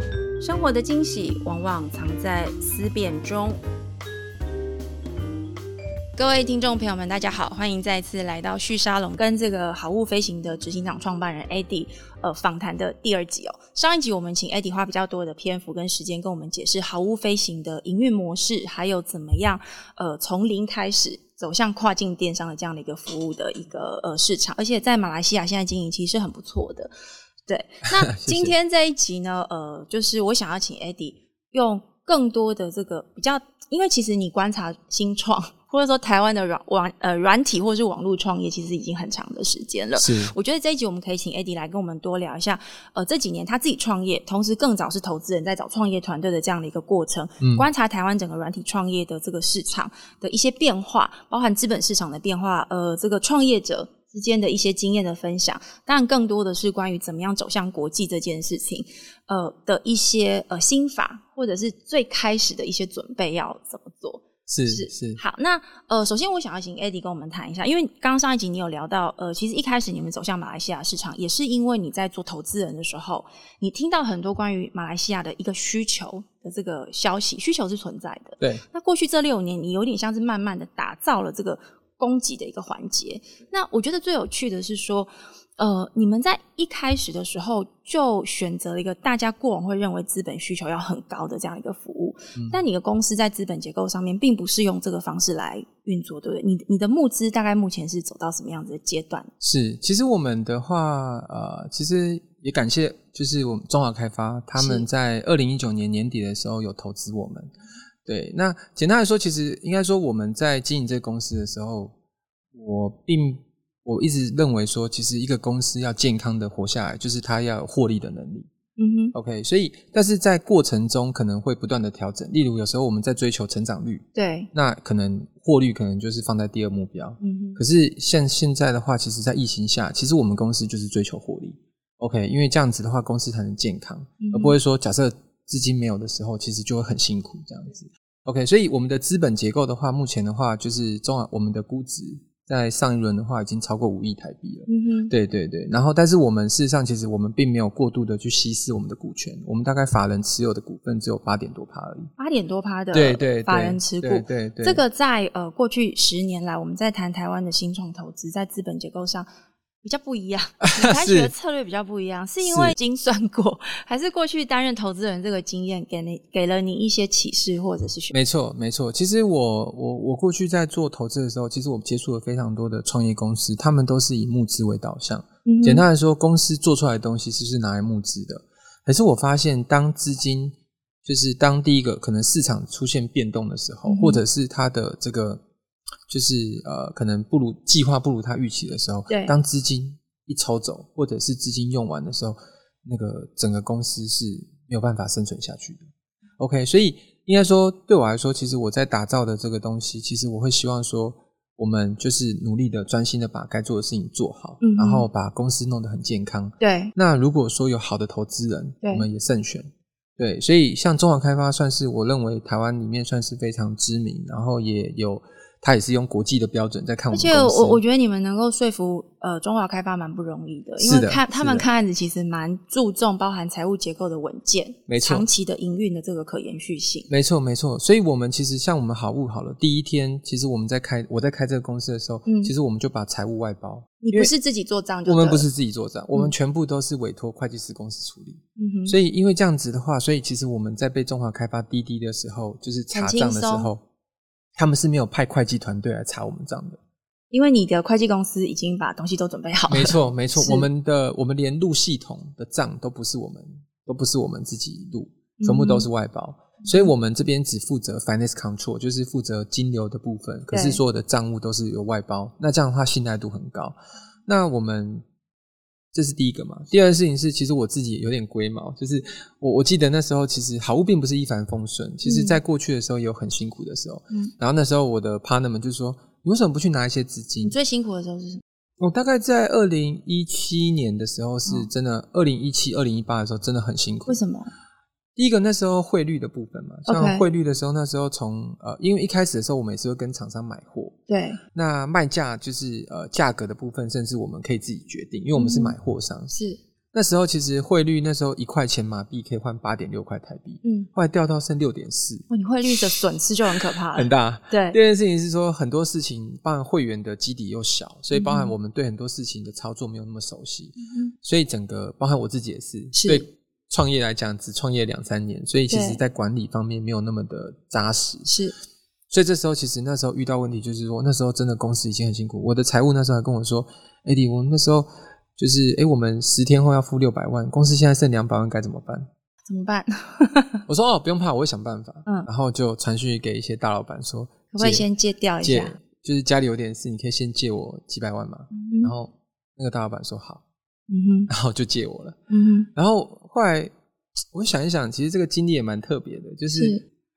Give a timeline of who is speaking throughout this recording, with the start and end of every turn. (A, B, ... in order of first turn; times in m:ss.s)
0:00.4-0:03.6 A
0:06.2-0:26.9 A
0:27.5-1:39.3 A
0:28.0-0:28.5 B
0:40.0-0:40.3 B
0:47.4-0:47.7 B
1:04.5-1:05.2 B
1:32.4-1:32.6 B
1:39.4-1:47.5 B
1:44.6-1:44.8 A
1:48.0-1:51.9 B
1:52.5-1:58.5 B
1:58.8-1:59.1 A
1:59.1-2:32.1 B
2:04.1-2:04.5 A
2:07.2-2:07.6 A
2:14.2-2:14.6 A
2:24.7-2:25.1 A
2:32.2-2:39.3 A
2:32.9-2:34.8 B
2:39.8-2:48.1 A
2:40.7-2:41.3 B
2:42.4-2:42.8 B
2:48.1-3:05.4 B
2:55.4-2:55.8 A
3:03.8-3:04.2 A
3:06.1-3:15.9 B
3:16.4-3:37.8 B
3:24.6-3:25.1 A
3:26.6-3:26.9 A
3:28.8-3:29.1 A
3:37.1-3:47.1 A
3:40.8-3:41.7 B
3:44.9-3:45.2 B
3:47.1-3:54.3 B
3:52.2-3:52.5 A
3:54.0-3:55.4 A
3:55.0-4:03.8 B
3:58.6-3:59.0 A
4:02.9-4:03.7 A
4:04.6-4:06.8 B
4:07.3-4:10.6 A
4:09.7-4:25.0 B
4:15.4-4:15.9 A
4:16.6-4:16.9 A
4:20.5-4:20.8 A
4:25.9-4:37.6 B
4:32.0-4:32.4 A
4:37.4-4:38.4 A
4:38.8-4:44.2 B
4:44.1-4:44.5 A
4:45.2-4:51.0 B
4:46.9-4:47.2 A
4:51.1-4:51.4 A
4:51.5-4:56.3 B
4:55.4-4:55.7 A
4:56.3-4:56.6 A
4:56.9-5:02.2 B
5:00.6-5:00.9 A
5:02.3-5:04.8 A
5:03.9-5:18.3 B
5:08.1-5:08.5 A
5:10.8-5:11.1 A
5:12.9-5:13.2 A
5:15.7-5:16.0 A
5:18.2-5:18.5 A
5:19.1-5:29.1 B
5:29.4-5:30.6 A
5:30.7-5:34.9 B
5:34.5-5:35.7 A
5:35.4-5:40.4 B
5:38.5-5:38.9 A
5:40.9-5:41.3 A
5:41.3-5:42.2 B
5:42.3-5:42.7 A
5:42.7-5:43.7 B
5:44.3-5:46.8 B
5:46.5-5:46.8 A